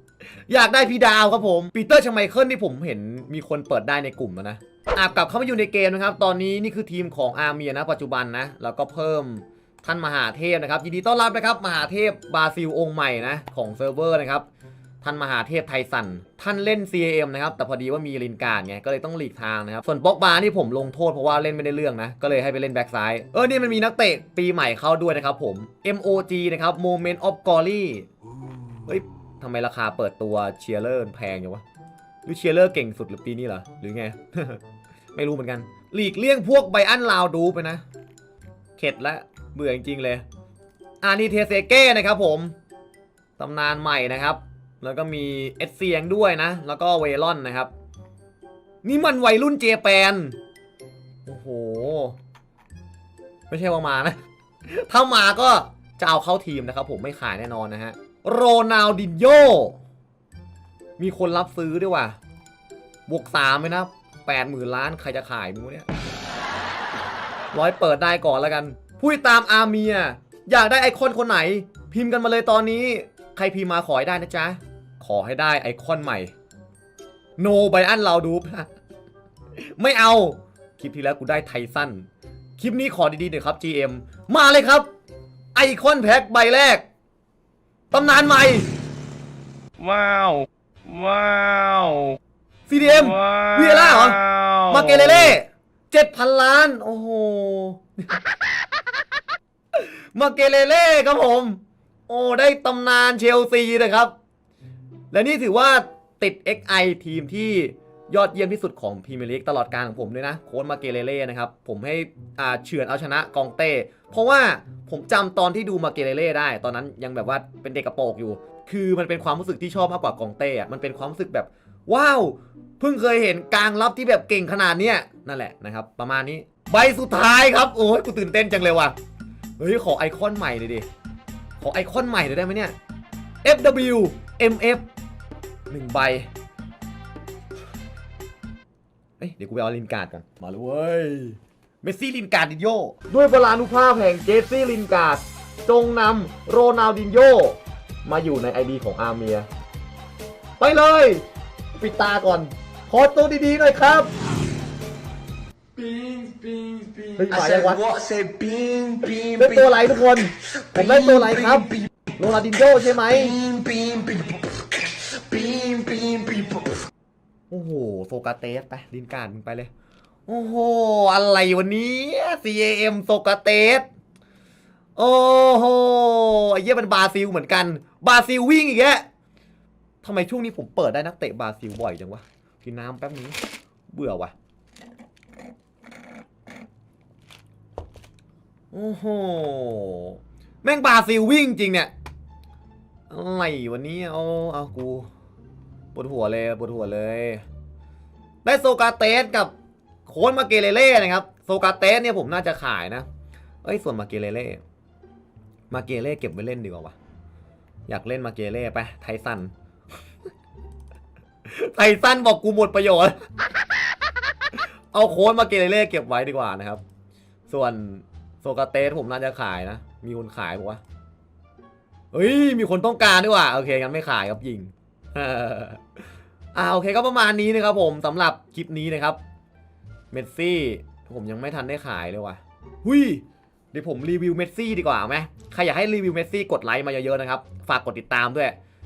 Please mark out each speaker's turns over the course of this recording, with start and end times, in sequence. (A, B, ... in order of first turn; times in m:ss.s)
0:00.5-0:14.5 A
0:15.0-0:28.1 A
0:28.9-0:31.6 A
0:32.2-0:34.6 A
0:35.1-0:37.8 A
0:38.8-0:40.2 A
0:41.0-0:42.5 A
0:43.4-0:47.7 A
0:48.8-0:50.4 A
0:51.3-0:52.2 A
0:53.5-0:59.8 A
1:01.0-1:02.2 A
1:03.1-1:05.9 A
1:07.5-1:16.3 A
1:17.4-1:18.7 A
1:19.8-1:24.9 A
1:25.6-1:26.8 A
1:27.9-1:28.7 A
1:29.8-1:32.2 B
1:32.7-1:38.2 A
1:33.1-1:35.1 B
1:39.7-1:44.1 A
1:45.1-2:09.0 A
2:09.6-2:10.9 A
2:11.6-2:12.8 A
2:13.4-2:14.9 A
2:15.7-2:16.3 A
2:19.2-2:29.5 A
2:30.6-2:31.2 A
2:31.8-2:34.1 A
2:35.8-2:39.5 C
2:37.2-2:37.9 A
2:39.4-2:43.4 A
2:40.8-2:41.7 C
2:43.2-2:46.8 C
2:47.5-2:49.7 A
2:50.3-2:53.9 A
2:55.0-2:59.0 A
3:00.0-3:03.4 A
3:03.9-3:04.3 A
3:08.7-3:11.9 A
3:13.1-3:15.1 A
3:15.9-3:17.4 A
3:18.4-3:19.5 A
3:20.1-3:23.1 A
3:23.6-3:24.6 A
3:25.7-3:27.0 A
3:27.9-3:29.5 A
3:31.4-3:33.2 A
3:34.9-3:36.8 A
3:37.5-3:40.8 A
3:42.1-3:45.8 A
3:46.5-3:49.2 A
3:50.1-3:58.6 A